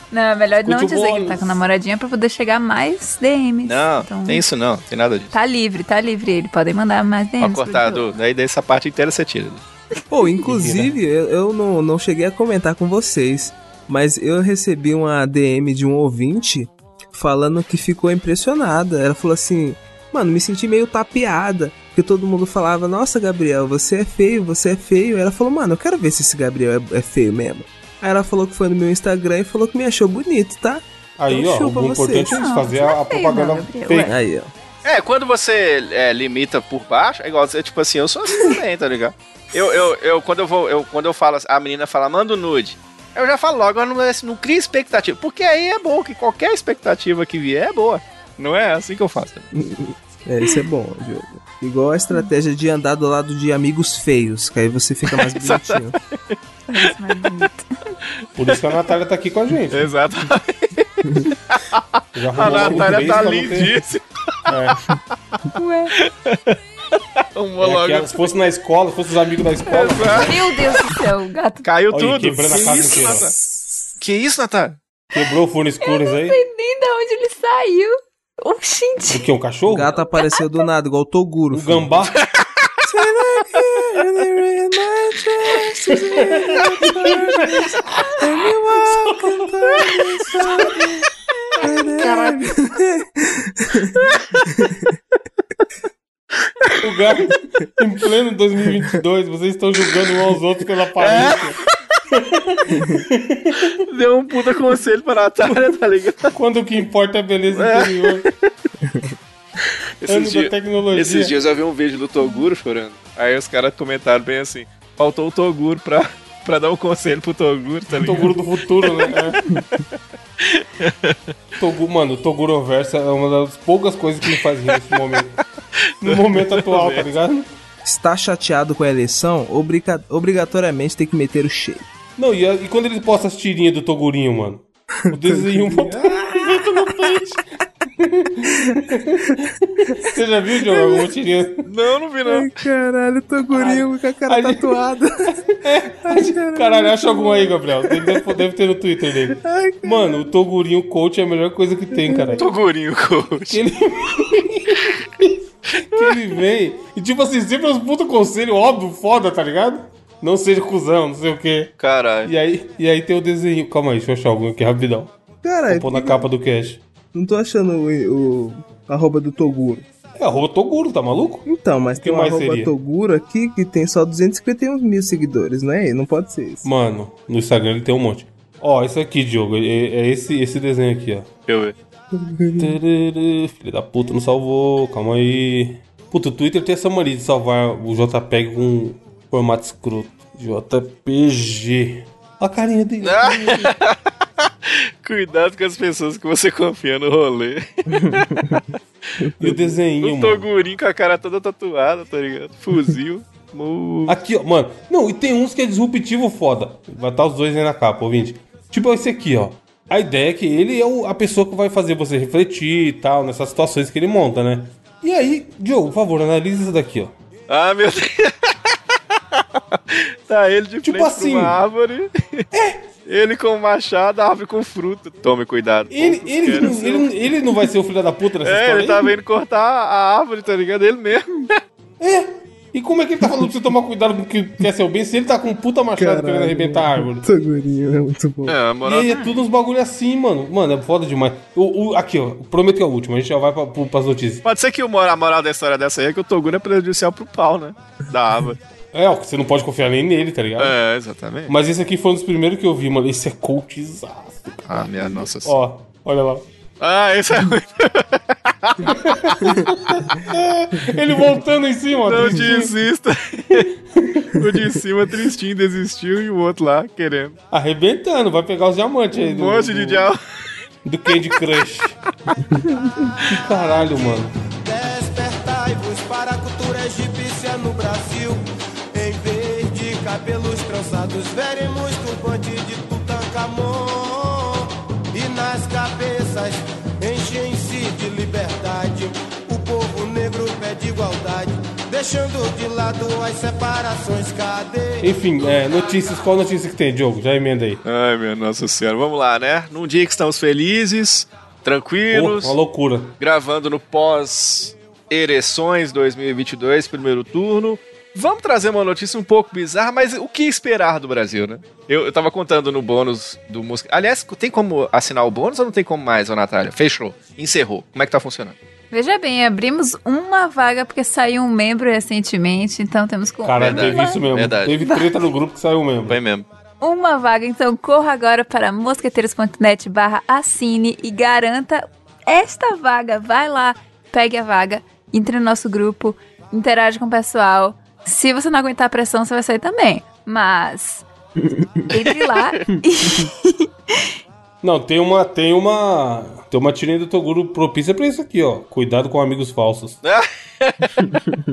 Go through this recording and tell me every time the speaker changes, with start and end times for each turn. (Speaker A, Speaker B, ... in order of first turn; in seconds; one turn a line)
Speaker A: 0.1-4.4
Speaker B: 0.6-1.6
Speaker C: 3.6-5.3
Speaker A: 5.3-8.1
Speaker C: 7.4-9.6
Speaker D: 10.1-32.4
Speaker B: 10.4-10.9
Speaker B: 31.2-34.1
Speaker A: 32.3-34.1
Speaker D: 34.0-34.5
Speaker C: 34.8-49.5
Speaker D: 49.5-56.0
Speaker C: 55.1-56.2
Speaker A: 56.7-57.9
Speaker B: 58.4-59.9
Speaker C: 59.7-64.5
Speaker B: 62.1-63.8
Speaker B: 64.5-64.9
Speaker A: 65.5-65.9
Speaker C: 65.9-68.3
Speaker B: 67.6-70.6
Speaker C: 69.6-70.3
Speaker A: 70.2-71.7
Speaker C: 71.6-74.8
Speaker B: 71.9-73.3
Speaker B: 75.1-76.4
Speaker A: 75.8-79.2
Speaker B: 79.1-79.9
Speaker D: 79.7-81.9
Speaker B: 81.5-82.2
Speaker C: 82.2-82.6
Speaker D: 82.8-90.9
Speaker B: 85.9-88.1
Speaker B: 88.8-89.5
Speaker D: 91.6-94.9
Speaker C: 92.0-92.4
Speaker B: 96.8-101.6
Speaker C: 99.8-100.2
Speaker C: 101.0-101.5
Speaker B: 102.1-103.8
Speaker C: 103.7-106.3
Speaker B: 106.3-108.3
Speaker C: 107.5-108.3
Speaker C: 110.0-119.3
Speaker B: 110.0-111.3
Speaker B: 117.9-119.4
Speaker C: 120.4-121.2
Speaker B: 121.6-125.3
Speaker C: 124.3-125.2
Speaker C: 125.8-127.1
Speaker B: 126.0-127.5
Speaker D: 127.8-131.9
Speaker B: 132.2-137.4
Speaker D: 135.1-136.6
Speaker B: 138.0-141.7
Speaker D: 138.6-139.3
Speaker D: 139.9-141.1
Speaker C: 141.7-142.5
Speaker D: 142.2-145.4
Speaker C: 143.5-143.8
Speaker B: 144.3-144.7
Speaker B: 145.4-152.4
Speaker D: 146.0-148.4
Speaker D: 149.3-150.2
Speaker D: 151.9-152.4
Speaker C: 152.4-153.6
Speaker B: 153.5-155.4
Speaker B: 155.9-161.7
Speaker C: 155.9-156.3
Speaker C: 161.8-162.3
Speaker B: 162.2-165.1
Speaker D: 165.4-166.3
Speaker B: 165.7-166.8
Speaker D: 167.1-169.8
Speaker B: 170.2-171.4
Speaker D: 171.4-176.7
Speaker B: 172.0-172.7
Speaker B: 176.6-181.3
Speaker C: 181.5-181.7
Speaker D: 182.1-182.8
Speaker B: 182.6-193.8
Speaker C: 193.0-198.7
Speaker D: 197.9-198.6
Speaker B: 199.4-200.5
Speaker C: 200.0-204.2
Speaker B: 204.1-217.1
Speaker C: 217.5-218.8
Speaker C: 219.3-222.4
Speaker B: 220.8-221.6
Speaker B: 222.5-222.9
Speaker C: 223.1-227.1
Speaker B: 225.9-229.2
Speaker C: 228.4-231.6
Speaker B: 232.0-237.2
Speaker D: 235.9-238.6
Speaker C: 238.4-239.1
Speaker B: 238.8-244.4
Speaker A: 239.0-239.3
Speaker C: 244.4-248.6
Speaker B: 248.9-250.7
Speaker C: 250.6-251.5
Speaker B: 251.5-256.4
Speaker C: 254.7-255.5
Speaker C: 256.8-259.8
Speaker B: 258.8-262.7
Speaker C: 262.0-263.7
Speaker B: 263.5-264.5
Speaker C: 264.4-267.4
Speaker B: 267.5-270.1
Speaker C: 269.1-270.2
Speaker B: 270.8-272.0
Speaker B: 273.2-274.3
Speaker E: 273.7-278.4
Speaker E: 278.9-295.1
Speaker B: 295.0-297.8
Speaker C: 297.8-302.5
Speaker B: 302.1-303.1
Speaker C: 303.2-318.6
Speaker A: 318.9-324.2
Speaker B: 323.4-326.2
Speaker C: 323.6-324.8
Speaker A: 324.8-325.1
Speaker C: 326.1-326.5
Speaker A: 326.8-341.1
Speaker D: 341.4-341.9
Speaker A: 341.9-344.1
Speaker B: 344.6-350.0
Speaker C: 350.0-351.1